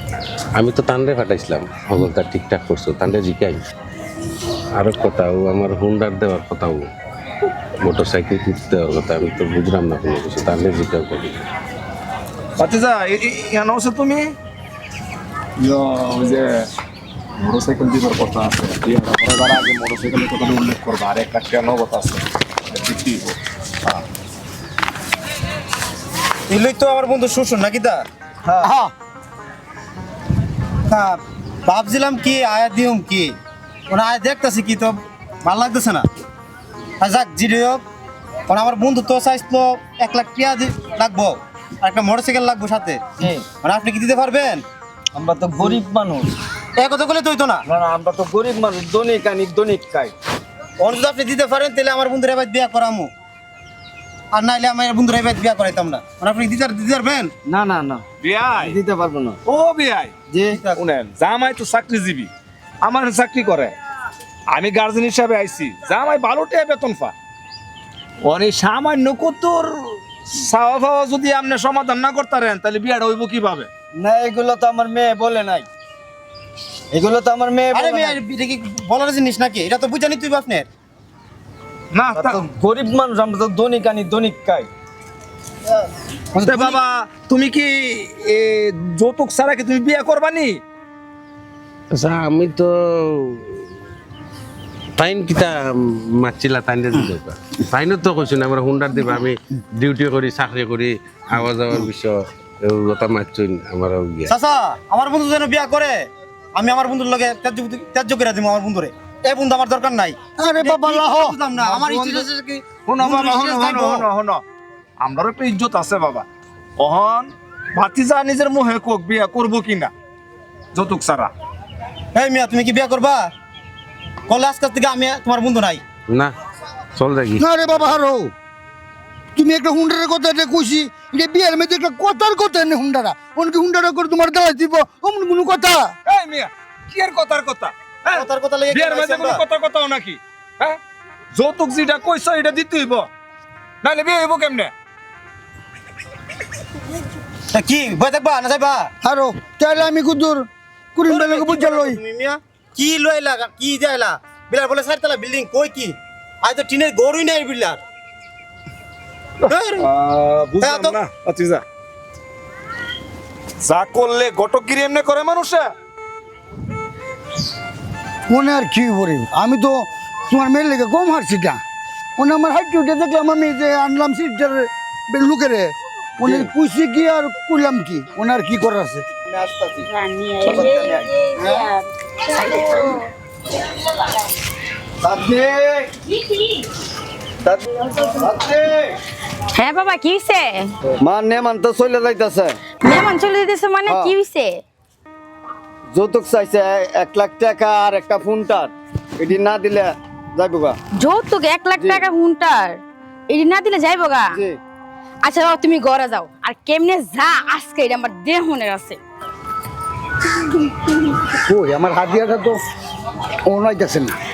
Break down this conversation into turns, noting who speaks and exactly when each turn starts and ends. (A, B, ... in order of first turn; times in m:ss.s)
0:00.5-0:03.6 A
0:04.7-0:06.9 A
0:07.8-0:11.4 A
0:12.6-0:14.3 B
0:15.6-0:16.7 B
0:17.4-0:23.4 B
0:26.5-0:28.7 C
0:28.6-0:28.9 D
0:30.9-0:33.4 C
0:33.9-0:36.0 C
0:37.0-0:37.8 C
0:38.5-0:44.6 C
0:43.2-0:43.5 E
0:45.1-0:46.3 E
0:46.8-0:47.6 C
0:47.6-0:50.1 E
0:50.8-0:53.1 C
0:54.3-0:57.3 C
0:57.4-0:59.4 E
0:58.2-0:58.8 B
0:59.4-1:00.1 B
1:00.3-1:01.1 E
1:00.4-1:00.8 C
1:00.8-1:02.3 B
1:02.8-1:03.7 B
1:04.5-1:07.1 B
1:08.2-1:13.7 B
1:14.0-1:15.7 E
1:16.9-1:18.2 E
1:17.7-1:20.7 C
1:21.9-1:22.5 B
1:22.1-1:22.4 C
1:22.5-1:24.7 E
1:26.3-1:26.8 D
1:26.4-1:30.6 B
1:31.9-1:33.7 A
1:35.0-1:44.3 A
1:44.3-1:54.0 C
1:50.4-1:52.3 D
1:52.7-1:54.4 B
1:55.0-1:56.3 B
1:56.8-1:59.9 B
2:00.7-2:01.3 B
2:02.1-2:03.3 C
2:04.3-2:05.8 C
2:07.0-2:07.6 A
2:07.4-2:08.3 D
2:09.4-2:15.9 D
2:16.0-2:20.8 B
2:18.1-2:19.4 C
2:21.3-2:23.1 B
2:23.8-2:24.7 B
2:27.5-2:28.9 C
2:29.0-2:32.0 D
2:31.1-2:37.8 C
2:39.5-2:39.9 C
2:39.8-2:41.6 B
2:40.6-2:41.0 C
2:43.6-2:45.7 B
2:48.3-2:51.6 D
2:52.2-2:59.0 D
2:56.2-2:56.5 E
2:59.3-2:59.9 E
2:59.8-3:01.7 F
3:00.4-3:01.1 E
3:02.2-3:03.0 F
3:05.0-3:05.9 E
3:07.4-3:09.0 E
3:09.5-3:10.7 F
3:11.0-3:12.6 E
3:12.8-3:14.6 F
3:13.8-3:14.1 E
3:15.9-3:20.8 E
3:21.0-3:24.4 F
3:21.8-3:22.0 E
3:25.2-3:29.0 F
3:31.3-3:32.6 D
3:33.5-3:34.2 D